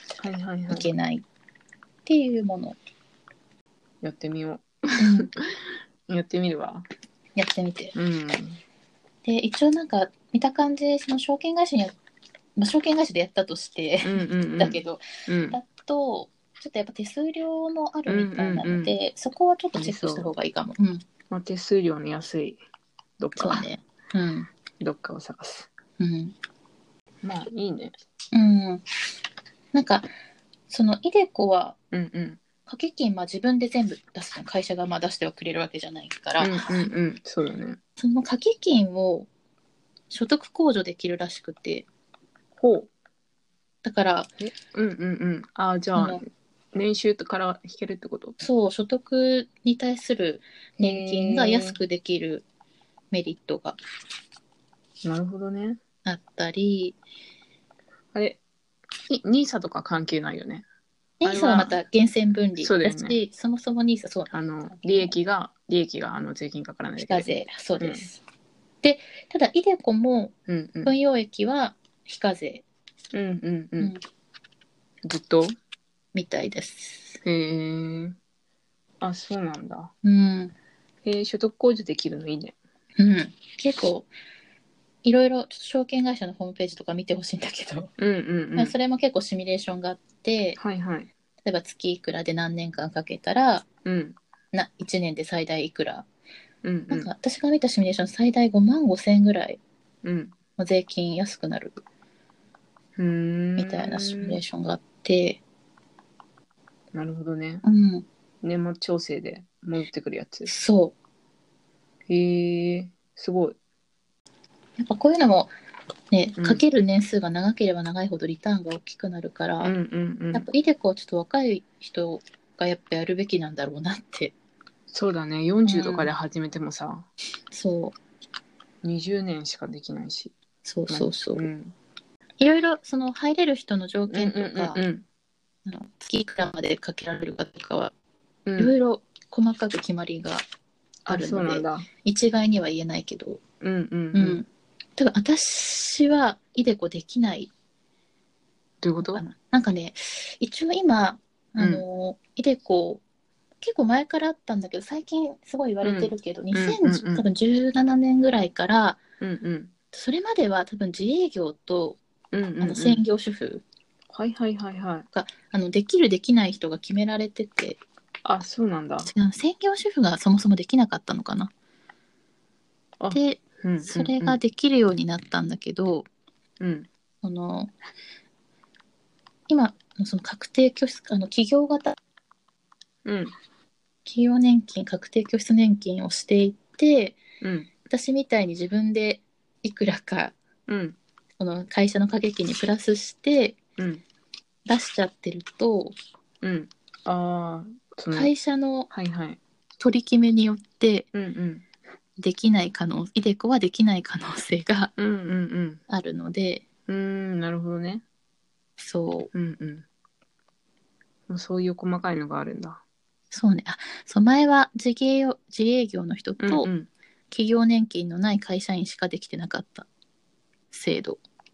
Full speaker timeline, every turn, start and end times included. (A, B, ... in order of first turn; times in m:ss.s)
0:00.2-0:00.9 A
0:00.7-0:01.2 B
0:02.0-0:02.8 B
0:04.0-0:06.8 A
0:05.0-0:05.3 B
0:07.4-0:07.9 B
0:07.9-0:08.6 A
0:09.2-0:12.0 B
0:12.6-0:21.0 B
0:14.0-0:15.6 A
0:18.1-0:18.9 A
0:19.8-0:20.3 A
0:21.3-0:22.6 A
0:23.2-0:23.6 A
0:23.4-0:24.5 B
0:24.8-0:25.7 A
0:26.0-0:26.3 B
0:27.2-0:27.9 A
0:28.3-0:28.8 B
0:29.7-0:30.1 B
0:30.7-0:31.8 B
0:31.9-0:32.4 A
0:32.6-0:36.7 B
0:36.4-0:37.8 A
0:38.0-0:39.3 B
0:40.1-0:41.9 B
0:42.6-0:42.9 A
0:43.8-0:44.3 B
0:44.4-0:48.4 A
0:46.0-0:46.2 B
0:48.4-0:52.4 B
0:50.8-0:51.8 A
0:53.1-0:53.8 B
0:55.0-0:55.8 A
0:56.0-0:57.0 B
0:58.1-0:58.4 A
0:59.1-1:00.6 A
1:01.2-1:05.1 B
1:01.2-1:01.8 A
1:02.6-1:03.2 A
1:04.3-1:08.0 A
1:07.0-1:08.2 B
1:08.8-1:12.6 B
1:10.5-1:10.9 A
1:13.1-1:13.9 A
1:15.0-1:15.5 A
1:16.1-1:17.2 B
1:17.2-1:18.2 A
1:19.0-1:19.9 A
1:20.0-1:20.5 B
1:21.0-1:22.5 A
1:23.0-1:24.1 B
1:25.0-1:27.9 B
1:28.0-1:28.7 A
1:28.6-1:30.6 B
1:30.6-1:31.1 A
1:31.4-1:33.6 B
1:33.8-1:34.2 A
1:34.5-1:36.0 B
1:36.6-1:37.1 A
1:36.9-1:39.6 B
1:40.0-1:40.3 A
1:40.6-1:41.8 B
1:43.0-1:44.4 A
1:43.6-1:45.4 B
1:46.9-1:47.6 A
1:47.6-1:48.0 B
1:48.4-1:50.5 A
1:50.5-1:50.9 B
1:52.1-1:53.6 A
1:54.8-1:55.5 B
1:56.1-1:59.7 B
1:59.6-2:00.5 A
2:00.3-2:04.3 B
2:04.9-2:07.1 A
2:05.6-2:06.1 B
2:07.5-2:08.0 B
2:08.8-2:10.3 A
2:10.6-2:11.5 B
2:10.9-2:11.7 A
2:12.4-2:14.8 B
2:14.1-2:15.0 A
2:15.6-2:17.9 B
2:18.4-2:18.7 A
2:18.6-2:20.4 B
2:21.0-2:21.9 A
2:21.1-2:23.4 B
2:23.6-2:24.4 A
2:24.1-2:27.5 B
2:28.8-2:29.2 A
2:29.0-2:33.0 B
2:31.6-2:31.8 A
2:33.6-2:39.0 B
2:35.8-2:37.2 A
2:39.2-2:39.7 A
2:39.9-2:42.0 B
2:42.3-2:43.0 A
2:42.6-2:43.6 B
2:44.1-2:45.1 A
2:45.1-2:47.8 B
2:48.2-2:49.1 A
2:49.0-2:51.5 B
2:53.0-2:54.4 A
2:53.1-2:56.1 B
2:56.6-2:56.9 A
2:57.2-2:57.7 B
2:59.5-3:02.0 B
3:03.0-3:03.3 A
3:04.0-3:07.2 B
3:07.4-3:07.7 A
3:07.9-3:10.4 B
3:10.7-3:11.0 A
3:11.4-3:13.6 B
3:13.8-3:14.0 A
3:14.7-3:16.0 B
3:16.4-3:18.3 A
3:18.1-3:18.9 B
3:18.9-3:19.4 A
3:19.8-3:21.1 B
3:21.1-3:21.6 A
3:22.2-3:24.9 B
3:25.0-3:25.8 A
3:25.9-3:26.6 B
3:26.9-3:28.0 A
3:28.8-3:29.3 B
3:29.3-3:29.8 A
3:31.3-3:32.8 A
3:33.3-3:36.7 B
3:36.4-3:36.9 A
3:37.3-3:39.9 B
3:40.7-3:41.2 B